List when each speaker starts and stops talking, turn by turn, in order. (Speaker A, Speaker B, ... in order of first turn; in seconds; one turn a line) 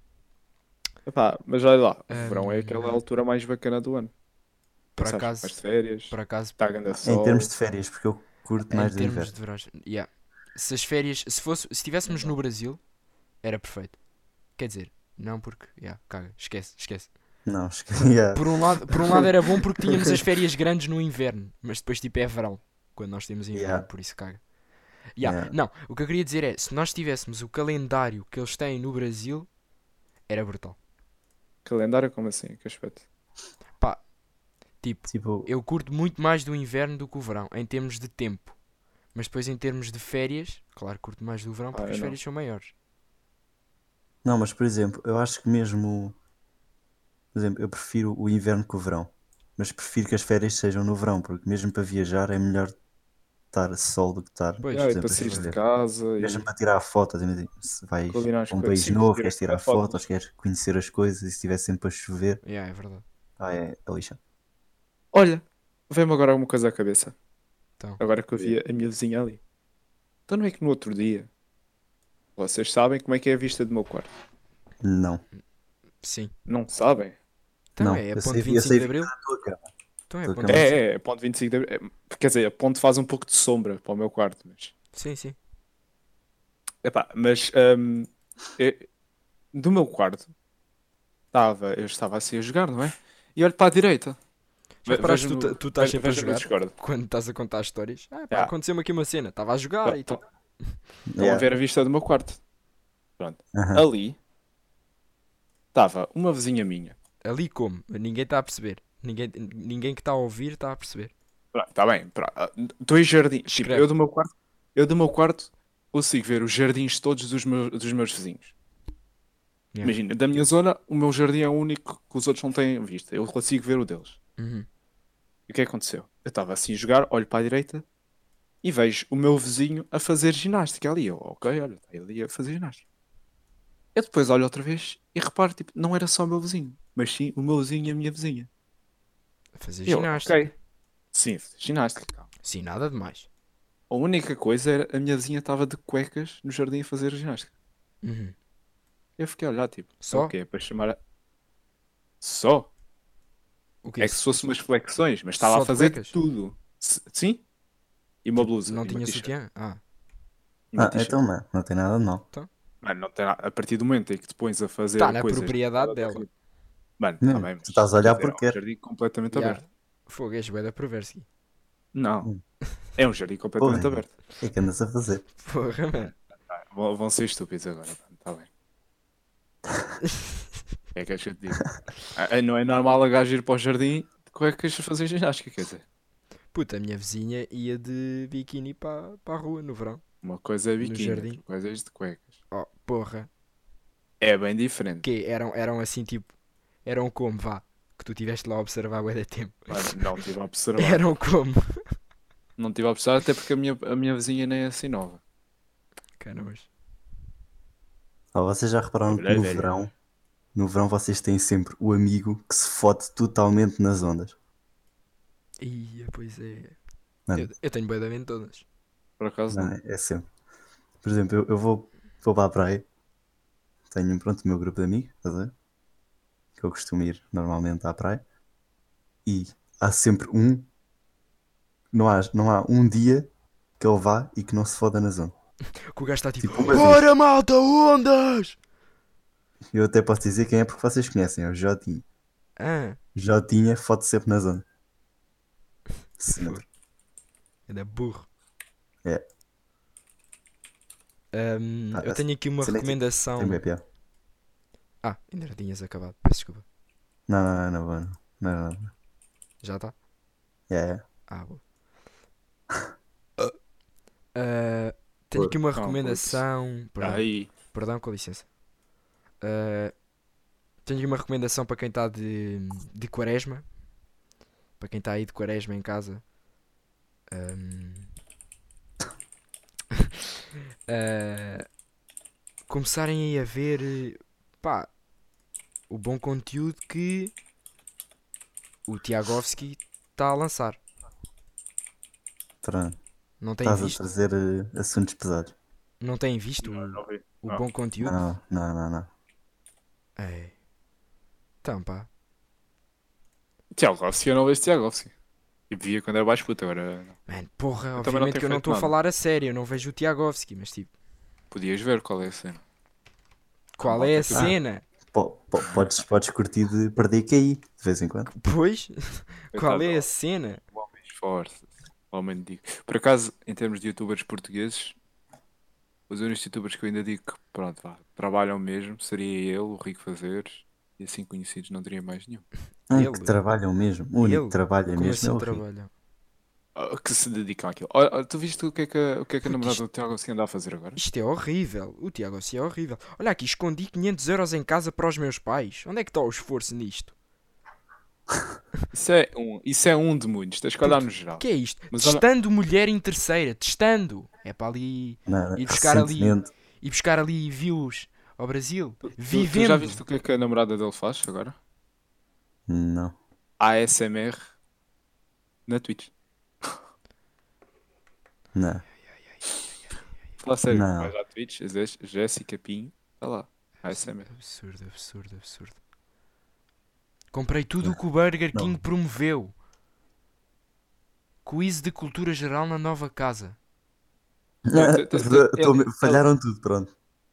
Speaker A: 1.1-4.1
Speaker B: 2.1-3.0
Speaker B: 5.0-6.5
Speaker A: 5.0-7.5
Speaker C: 7.0-9.3
Speaker B: 8.7-12.8
Speaker A: 12.1-12.3
Speaker B: 13.4-14.0
Speaker B: 14.6-17.1
Speaker C: 17.4-18.9
Speaker B: 18.3-24.4
Speaker C: 23.5-23.9
Speaker B: 25.1-29.5
Speaker C: 25.2-25.5
Speaker B: 30.3-30.8
Speaker A: 31.6-33.0
Speaker B: 34.8-38.5
Speaker C: 35.1-35.5
Speaker B: 39.1-42.7
Speaker A: 41.7-42.2
Speaker C: 44.2-46.1
Speaker C: 47.3-52.7
Speaker C: 53.5-55.6
Speaker B: 54.6-55.5
Speaker A: 54.7-56.4
Speaker C: 56.2-62.4
Speaker A: 58.1-60.0
Speaker B: 62.4-63.0
Speaker C: 63.4-64.2
Speaker A: 65.1-67.1
Speaker A: 68.0-69.4
Speaker A: 70.3-71.3
Speaker A: 72.4-74.1
Speaker C: 74.8-75.2
Speaker B: 76.0-76.3
Speaker A: 76.5-77.1
Speaker B: 77.8-79.1
Speaker C: 77.8-79.7
Speaker B: 80.1-80.8
Speaker C: 80.2-80.7
Speaker A: 80.5-84.7
Speaker B: 84.9-85.4
Speaker A: 86.8-88.9
Speaker A: 89.5-90.3
Speaker A: 91.3-94.2
Speaker B: 94.8-100.8
Speaker A: 94.9-96.7
Speaker A: 99.8-100.2
Speaker C: 101.1-101.5
Speaker A: 101.2-102.4
Speaker A: 103.2-104.2
Speaker C: 103.5-103.8
Speaker A: 105.7-107.0
Speaker B: 107.2-111.1
Speaker A: 111.5-118.5
Speaker B: 113.5-113.9
Speaker A: 119.8-124.2
Speaker B: 124.4-124.7
Speaker A: 125.5-127.8
Speaker A: 128.6-132.8
Speaker A: 133.9-138.5
Speaker B: 139.6-140.5
Speaker A: 139.9-140.5
Speaker A: 141.1-142.3
Speaker B: 142.4-143.3
Speaker A: 143.9-147.5
Speaker B: 148.0-148.3
Speaker A: 149.2-151.0
Speaker B: 150.0-150.3
Speaker A: 152.2-152.7
Speaker B: 153.8-154.2
Speaker A: 154.0-157.4
Speaker B: 155.4-156.2
Speaker A: 158.2-159.3
Speaker B: 158.4-159.8
Speaker A: 160.7-161.2
Speaker C: 160.8-162.2
Speaker A: 162.8-166.3
Speaker B: 165.0-166.2
Speaker A: 167.0-169.6
Speaker C: 167.2-168.6
Speaker B: 169.3-171.2
Speaker A: 171.9-172.3
Speaker A: 173.0-174.1
Speaker C: 173.6-175.2
Speaker B: 175.4-176.1
Speaker A: 176.5-178.5
Speaker B: 180.1-180.4
Speaker A: 180.9-185.8
Speaker B: 186.5-190.0
Speaker A: 190.2-192.4
Speaker B: 190.8-191.4
Speaker B: 192.5-193.3
Speaker A: 194.2-195.0
Speaker B: 195.0-196.3
Speaker B: 196.8-200.1
Speaker A: 199.7-201.0
Speaker B: 200.8-201.8
Speaker A: 202.6-205.2
Speaker B: 206.2-206.7
Speaker C: 208.3-209.9
Speaker A: 209.1-209.7
Speaker C: 210.5-214.3
Speaker B: 215.6-216.8
Speaker B: 217.3-218.6
Speaker A: 219.2-219.7
Speaker C: 219.5-220.2
Speaker C: 221.0-222.8
Speaker C: 223.9-225.5
Speaker C: 226.6-228.2
Speaker C: 229.2-230.7
Speaker C: 231.9-235.3
Speaker B: 235.9-238.6
Speaker C: 236.4-237.1
Speaker C: 239.7-242.0
Speaker B: 242.6-243.0
Speaker C: 243.1-244.6
Speaker C: 246.2-246.6
Speaker B: 246.3-246.6
Speaker B: 247.7-248.3
Speaker B: 251.3-253.6
Speaker C: 251.9-253.8
Speaker B: 255.0-256.6
Speaker C: 257.3-258.9
Speaker B: 259.6-259.9
Speaker C: 260.7-261.0
Speaker B: 261.3-261.6
Speaker B: 264.3-268.5
Speaker A: 265.7-266.4
Speaker A: 267.0-267.5
Speaker B: 269.4-269.9
Speaker B: 270.8-273.7
Speaker B: 274.8-276.2
Speaker B: 277.3-278.1
Speaker B: 280.9-281.7
Speaker B: 282.7-284.9
Speaker B: 285.9-287.3
Speaker B: 288.9-290.8
Speaker C: 292.6-293.0
Speaker B: 293.4-294.0
Speaker C: 293.6-295.5
Speaker B: 296.0-298.2
Speaker A: 296.6-297.6
Speaker C: 298.0-299.1
Speaker B: 300.2-300.5
Speaker B: 301.6-302.1
Speaker A: 303.7-305.1
Speaker A: 305.7-307.1
Speaker B: 307.3-310.9
Speaker A: 308.0-308.9
Speaker A: 311.5-312.6
Speaker B: 313.8-314.8
Speaker A: 313.8-314.5
Speaker C: 315.1-318.3
Speaker A: 315.6-315.9
Speaker B: 318.3-320.6
Speaker A: 319.5-320.1
Speaker A: 320.7-324.9
Speaker A: 326.1-332.4
Speaker C: 332.9-335.6
Speaker B: 332.9-333.4
Speaker B: 334.2-335.9
Speaker A: 336.8-341.0
Speaker B: 339.4-339.8
Speaker B: 340.9-347.1
Speaker A: 348.9-352.2
Speaker B: 350.8-360.0
Speaker C: 355.3-356.5
Speaker A: 359.3-361.6
Speaker C: 362.7-363.1
Speaker A: 363.6-364.4
Speaker A: 365.7-366.1
Speaker C: 368.5-368.8
Speaker B: 369.1-369.4
Speaker A: 370.4-374.3
Speaker C: 370.7-371.1
Speaker B: 373.9-375.8
Speaker B: 377.3-379.5
Speaker C: 378.5-378.8
Speaker B: 381.4-383.6
Speaker C: 384.6-386.9
Speaker A: 384.7-386.2